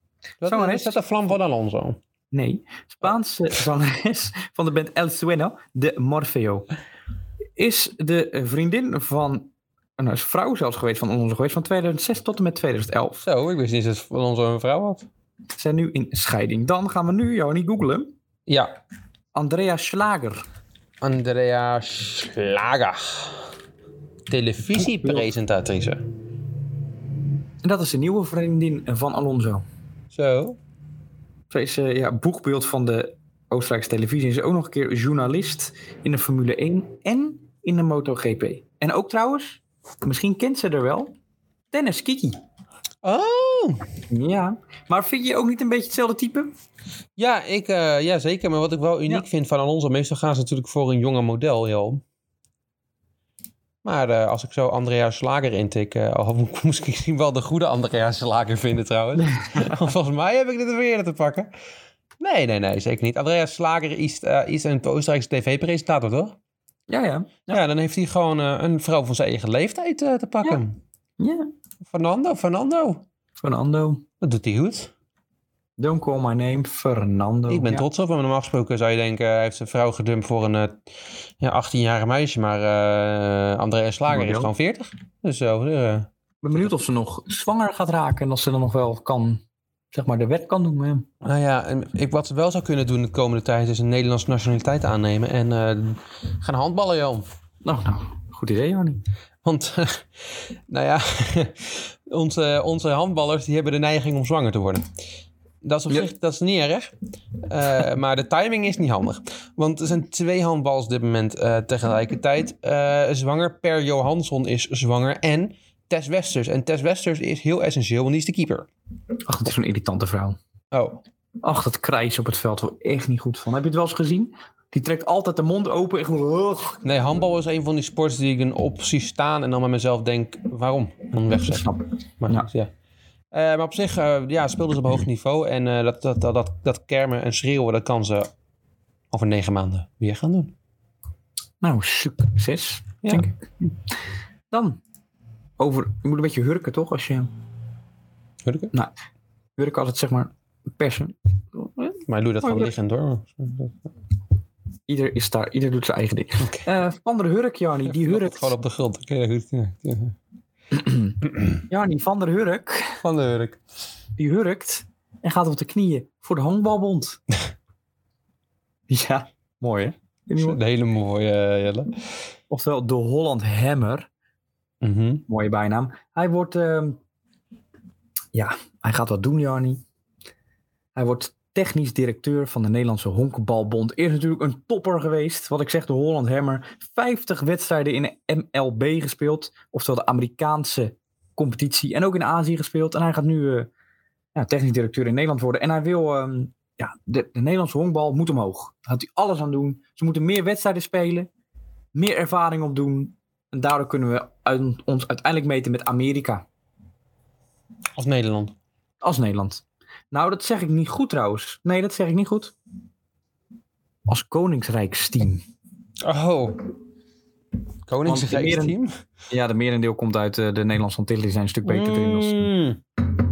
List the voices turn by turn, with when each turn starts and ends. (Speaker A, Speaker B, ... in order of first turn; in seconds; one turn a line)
Speaker A: 0.4-2.0
Speaker B: 0.4-1.0
Speaker B: 2.3-6.7
Speaker B: 7.6-13.2
Speaker A: 13.2-15.1
Speaker B: 15.6-18.1
Speaker A: 18.5-18.7
Speaker B: 19.3-20.4
Speaker A: 21.0-23.4
Speaker A: 24.3-26.0
Speaker B: 24.8-25.3
Speaker B: 27.6-29.6
Speaker A: 30.1-30.6
Speaker B: 31.5-41.1
Speaker B: 41.7-42.4
Speaker A: 43.0-43.9
Speaker B: 44.1-46.5
Speaker A: 47.2-52.0
Speaker A: 53.8-61.5
Speaker B: 59.4-59.7
Speaker A: 62.2-66.4
Speaker B: 66.9-67.6
Speaker A: 67.5-70.8
Speaker B: 71.2-71.5
Speaker A: 71.9-73.0
Speaker B: 73.4-74.0
Speaker A: 74.2-74.9
Speaker B: 75.8-77.8
Speaker A: 77.5-80.8
Speaker A: 81.4-86.1
Speaker B: 84.1-84.5
Speaker B: 86.4-91.1
Speaker A: 91.2-97.2
Speaker B: 97.6-99.0
Speaker A: 99.4-100.1
Speaker A: 100.7-104.9
Speaker A: 105.6-118.7
Speaker B: 119.3-120.4
Speaker A: 120.7-121.0
Speaker B: 121.4-126.8
Speaker A: 126.8-131.7
Speaker B: 131.5-132.5
Speaker A: 132.2-132.7
Speaker A: 133.3-138.3
Speaker A: 139.1-140.5
Speaker B: 141.6-143.8
Speaker B: 144.5-144.8
Speaker B: 145.6-147.3
Speaker A: 148.4-148.7
Speaker B: 149.6-152.7
Speaker A: 152.1-153.9
Speaker B: 154.9-158.5
Speaker A: 156.4-156.7
Speaker A: 157.9-160.2
Speaker B: 160.7-161.2
Speaker B: 161.7-163.0
Speaker A: 163.0-163.6
Speaker B: 164.2-167.2
Speaker B: 168.9-170.6
Speaker A: 170.4-171.9
Speaker B: 172.5-174.1
Speaker A: 174.8-175.2
Speaker B: 175.3-177.0
Speaker B: 178.3-179.8
Speaker B: 180.9-193.7
Speaker B: 194.3-201.3
Speaker B: 201.9-206.4
Speaker A: 208.0-208.6
Speaker B: 209.0-212.5
Speaker B: 214.1-215.4
Speaker A: 216.0-216.6
Speaker A: 217.9-218.9
Speaker B: 218.1-218.8
Speaker B: 219.3-222.5
Speaker A: 221.7-222.8